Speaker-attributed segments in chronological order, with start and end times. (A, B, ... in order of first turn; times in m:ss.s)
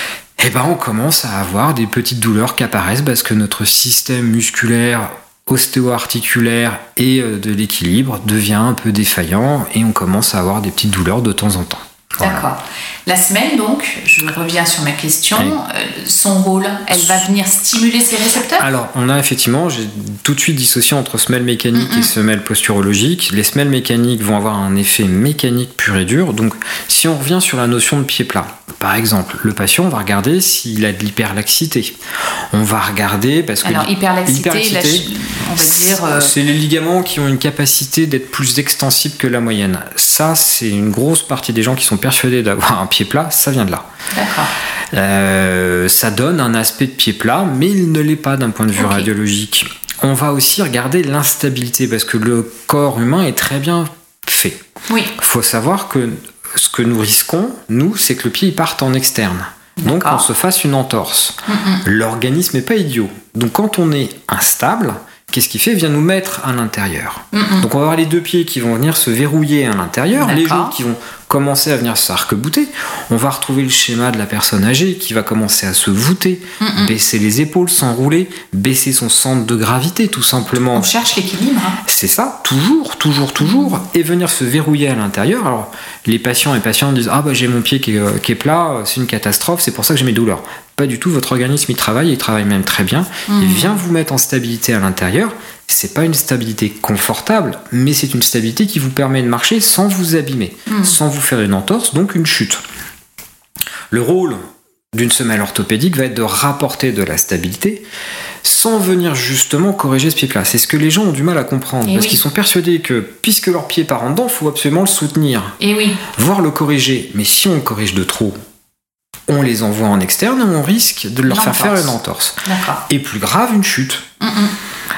0:00.4-0:12.5 A
0:12.2-0:18.7 B
0:16.9-0:17.3 A
0:18.6-0:32.0 A
0:21.8-0:22.1 B
0:32.5-0:43.9 A
0:33.6-0:36.3 B
0:44.1-0:44.5 B
0:44.9-0:54.6 A
0:48.8-0:49.1 B
0:55.2-1:20.9 A
0:59.8-1:00.2 B
1:01.5-1:01.8 B
1:07.3-1:07.7 B
1:10.1-1:10.8 B
1:16.6-1:16.9 B
1:20.7-1:21.8 B
1:21.8-1:42.6 A
1:23.4-1:23.8 B
1:33.3-1:33.8 B
1:40.7-1:41.0 B
1:43.9-1:47.8 A
1:48.4-1:58.4 A
1:51.8-1:52.2 B
1:55.6-1:56.0 B
1:59.3-2:04.1 A
2:01.3-2:01.9 B
2:02.4-2:02.8 B
2:04.2-2:04.5 B